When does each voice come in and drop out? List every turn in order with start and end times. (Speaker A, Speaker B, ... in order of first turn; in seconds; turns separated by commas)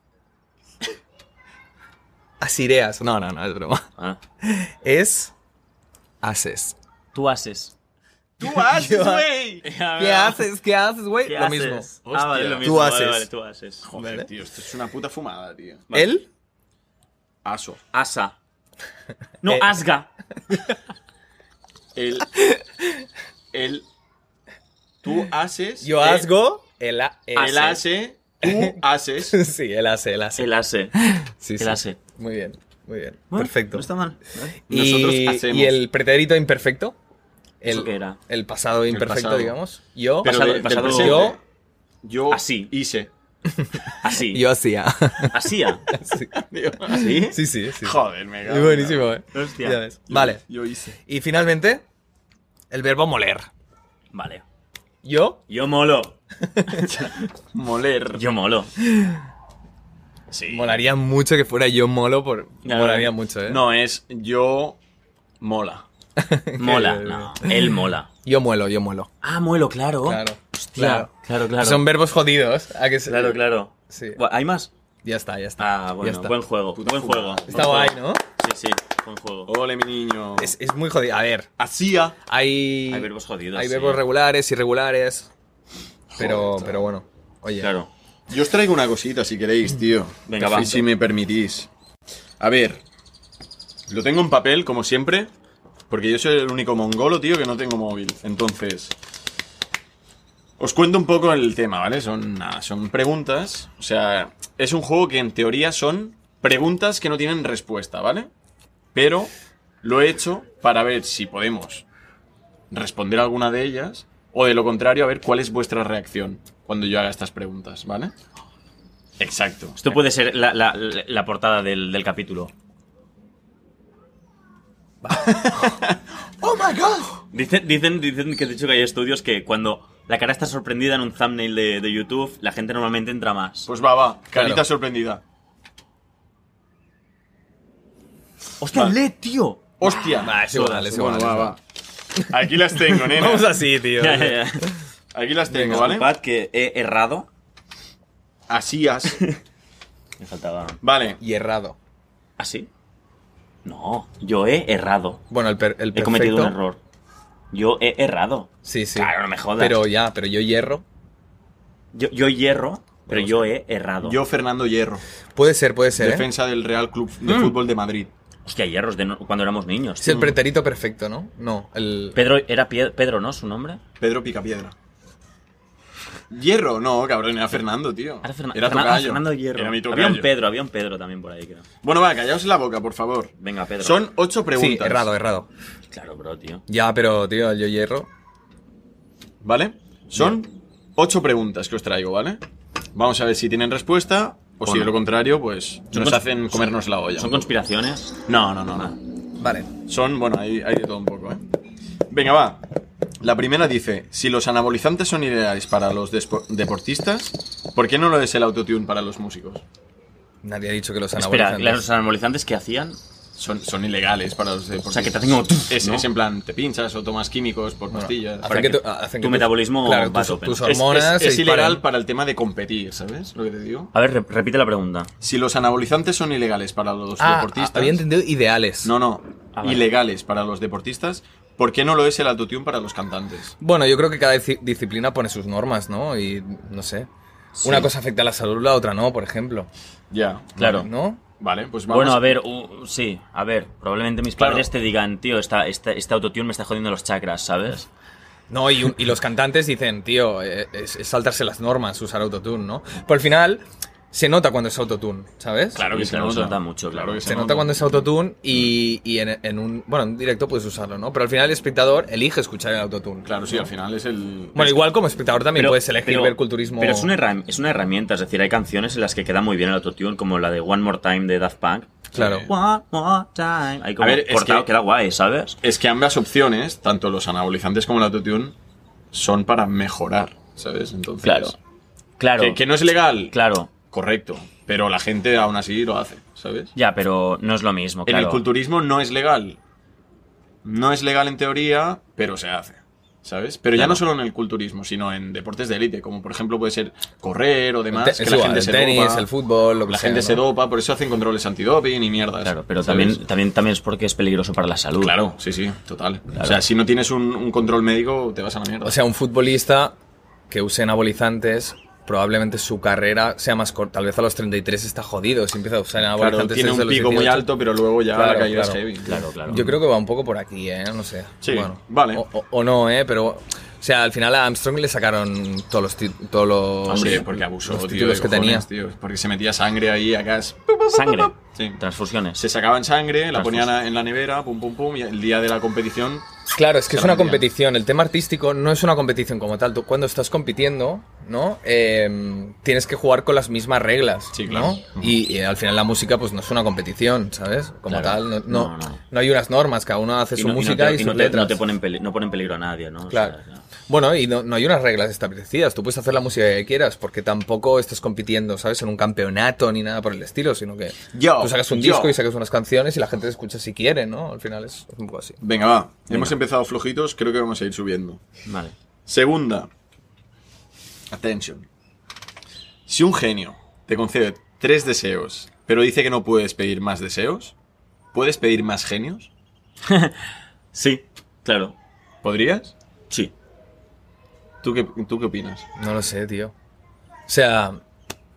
Speaker A: 2.4-3.9, Speaker A: 4.4-5.3, Speaker A: 6.2-6.8, Speaker B: 7.1-7.7, Speaker C: 8.4-9.7, Speaker A: 8.4-9.3, Speaker B: 9.6-10.4, Speaker A: 10.0-11.9, Speaker B: 11.2-13.9, Speaker C: 12.0-12.8, Speaker A: 12.6-13.3, Speaker C: 13.8-15.9, Speaker A: 13.9-14.3, Speaker A: 15.9-16.3, Speaker C: 17.4-17.8, Speaker B: 17.9-18.4, Speaker B: 19.4-20.1, Speaker A: 19.5-19.7, Speaker A: 20.5-20.8, Speaker C: 21.9-22.3, Speaker A: 22.3-23.0, Speaker C: 23.5-23.8, Speaker C: 25.0-26.3, Speaker A: 25.8-27.7, Speaker B: 27.4-27.8, Speaker C: 27.4-29.4, Speaker A: 28.4-33.9, Speaker B: 30.4-30.9, Speaker B: 31.6-32.0, Speaker B: 33.3-34.6, Speaker C: 34.7-35.8, Speaker A: 34.7-37.0, Speaker A: 37.6-41.4, Speaker B: 37.6-38.2, Speaker C: 38.9-39.6, Speaker B: 40.2-41.4, Speaker C: 40.2-41.4, Speaker C: 42.0-43.1, Speaker B: 42.3-42.7, Speaker A: 43.5-46.3, Speaker B: 44.0-44.5, Speaker B: 45.3-45.9, Speaker C: 46.3-47.2, Speaker A: 46.9-50.4, Speaker B: 46.9-47.4, Speaker C: 47.8-49.1, Speaker B: 49.3-49.8, Speaker C: 50.1-51.0, Speaker A: 51.0-51.8, Speaker A: 52.7-53.5, Speaker B: 54.1-54.4, Speaker A: 55.0-55.4, Speaker B: 55.5-57.1, Speaker A: 56.5-56.9, Speaker C: 57.5-58.2, Speaker B: 58.1-58.7, Speaker A: 58.8-59.2, Speaker C: 60.3-60.8, Speaker A: 60.5-63.6, Speaker B: 62.6-63.1, Speaker C: 63.5-64.8, Speaker C: 65.4-65.8, Speaker A: 66.2-69.1, Speaker B: 66.6-68.1, Speaker B: 69.2-71.8, Speaker A: 70.0-74.2, Speaker B: 73.1-74.7, Speaker A: 75.0-76.3, Speaker B: 75.6-79.5, Speaker C: 76.8-77.9, Speaker A: 77.5-78.2, Speaker C: 79.5-80.5, Speaker A: 80.4-81.5, Speaker C: 81.6-82.2, Speaker A: 82.3-85.3, Speaker B: 82.9-84.0, Speaker C: 86.1-86.8, Speaker A: 86.2-87.7, Speaker B: 87.6-87.9, Speaker C: 88.3-91.7, Speaker B: 90.3-90.8, Speaker C: 92.4-92.8, Speaker C: 93.9-95.3, Speaker C: 95.9-98.9, Speaker C: 100.6-108.3, Speaker C: 108.9-109.3, Speaker C: 109.8-111.8, Speaker C: 112.7-118.1, Speaker C: 119.2-119.8, Speaker B: 119.8-122.5, Speaker A: 125.0-125.8, Speaker C: 125.5-127.0, Speaker A: 126.4-127.0, Speaker B: 127.3-133.7, Speaker C: 133.7-135.2, Speaker A: 134.3-134.6, Speaker B: 138.6-140.7, Speaker C: 139.8-141.6, Speaker A: 140.1-141.5, Speaker C: 142.1-143.5, Speaker A: 142.2-144.8, Speaker B: 144.0-144.7, Speaker C: 145.1-146.1, Speaker B: 145.5-147.3, Speaker A: 145.6-145.8, Speaker C: 148.5-149.2, Speaker B: 150.2-150.8, Speaker C: 150.8-151.2, Speaker A: 151.2-151.8, Speaker B: 152.4-152.7, Speaker B: 153.6-155.2, Speaker A: 155.3-156.6, Speaker B: 155.9-156.8, Speaker B: 157.5-159.8, Speaker A: 158.6-160.8, Speaker B: 161.9-164.2, Speaker C: 164.0-165.0, Speaker A: 165.3-166.3, Speaker C: 165.9-168.1, Speaker B: 167.3-167.6, Speaker B: 168.4-170.3, Speaker A: 170.0-172.2, Speaker B: 172.1-173.8, Speaker C: 174.0-174.7, Speaker C: 176.3-180.3, Speaker B: 178.2-181.6, Speaker C: 181.8-185.1, Speaker B: 183.4-184.0, Speaker A: 184.5-185.5, Speaker B: 185.9-186.6, Speaker A: 186.7-188.1, Speaker C: 189.4-192.4, Speaker C: 192.9-197.4, Speaker B: 194.6-194.9, Speaker B: 195.9-196.6, Speaker B: 197.2-198.2, Speaker C: 198.2-198.9, Speaker A: 199.4-199.7, Speaker C: 199.8-201.4, Speaker C: 202.1-202.6, Speaker C: 203.2-209.6, Speaker A: 210.4-211.8, Speaker B: 211.2-213.0, Speaker C: 213.3-218.5, Speaker B: 214.9-216.1, Speaker A: 217.9-221.8, Speaker B: 218.4-220.6, Speaker C: 220.6-223.9, Speaker B: 223.9-225.1, Speaker C: 225.2-228.0, Speaker A: 227.2-228.9, Speaker C: 228.8-233.6, Speaker B: 229.6-229.8, Speaker A: 233.6-237.1, Speaker B: 237.6-237.9, Speaker A: 237.6-239.7, Speaker C: 240.1-240.8, Speaker B: 240.6-240.9, Speaker A: 240.6-241.2, Speaker C: 241.4-242.4, Speaker B: 241.9-247.9, Speaker C: 244.4-244.7, Speaker A: 248.5-255.8, Speaker C: 255.7-258.0, Speaker B: 255.8-257.2, Speaker A: 257.2-263.7, Speaker C: 263.2-264.8, Speaker A: 264.5-267.1, Speaker B: 265.5-275.6, Speaker A: 272.1-272.5, Speaker C: 272.2-272.5, Speaker C: 274.0-274.7, Speaker C: 275.6-278.5, Speaker C: 279.1-281.6, Speaker B: 281.2-281.6, Speaker B: 282.2-282.6, Speaker C: 282.4-283.3, Speaker B: 283.3-283.7, Speaker C: 283.9-286.7, Speaker B: 286.8-288.4, Speaker C: 288.1-289.6, Speaker C: 290.6-299.3, Speaker B: 293.8-294.0, Speaker A: 297.9-300.4, Speaker C: 299.9-303.2, Speaker B: 302.4-305.1, Speaker C: 305.0-309.0, Speaker B: 306.4-306.6, Speaker A: 308.8-309.9, Speaker A: 310.5-317.5, Speaker C: 316.1-319.6, Speaker A: 318.1-318.8, Speaker B: 319.1-319.7, Speaker A: 319.4-328.7, Speaker C: 321.4-322.2, Speaker C: 326.9-331.8, Speaker B: 330.9-332.4, Speaker C: 332.4-336.2, Speaker B: 333.3-333.7, Speaker A: 336.5-351.6, Speaker C: 336.9-337.4, Speaker C: 344.3-345.1, Speaker B: 347.9-349.0, Speaker B: 350.4-353.6, Speaker A: 353.1-353.3, Speaker A: 353.9-365.4, Speaker C: 361.1-362.2, Speaker C: 365.4-368.2, Speaker B: 366.1-366.3, Speaker B: 368.4-368.7, Speaker C: 369.1-369.7, Speaker C: 371.1-371.7, Speaker C: 372.9-377.5, Speaker C: 378.1-379.3, Speaker B: 379.9-381.7, Speaker C: 382.2-382.7, Speaker C: 384.6-385.6, Speaker A: 385.8-386.5, Speaker A: 387.3-387.8